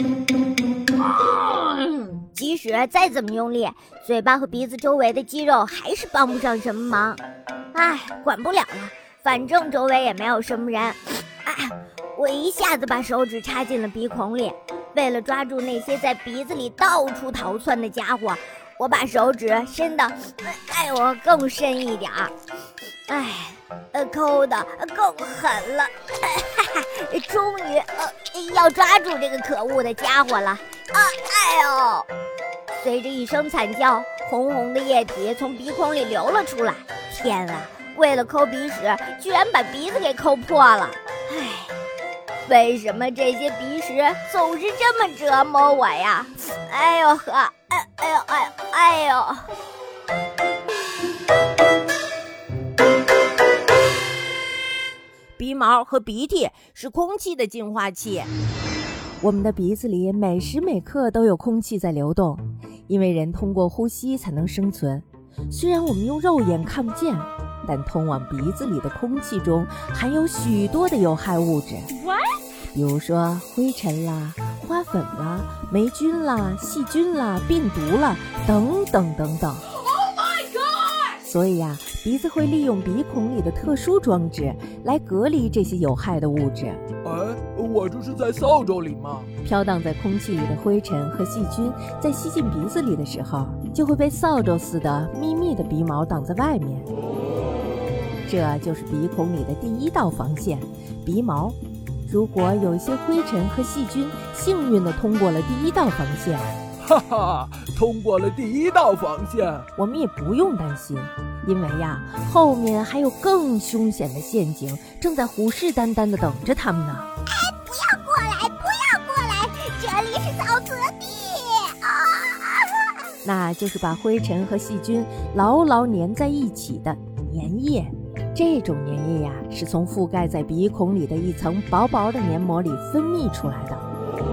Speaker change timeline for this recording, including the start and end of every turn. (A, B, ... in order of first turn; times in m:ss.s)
0:02.3-0:07.2 A
0:07.7-0:22.3 A
0:23.1-0:32.1 A
0:32.8-0:41.7 A
0:42.5-0:49.5 A
0:55.4-0:58.0 B
0:57.6-0:58.2 A
0:59.2-1:12.0 B
1:12.7-1:19.6 B
1:21.2-1:26.8 B
1:27.0-1:29.3 C
1:29.4-1:36.9 B
1:38.3-1:46.5 B
1:46.8-1:49.7 C
1:49.8-1:57.1 B
1:57.3-2:02.9 A
2:03.2-2:13.8 B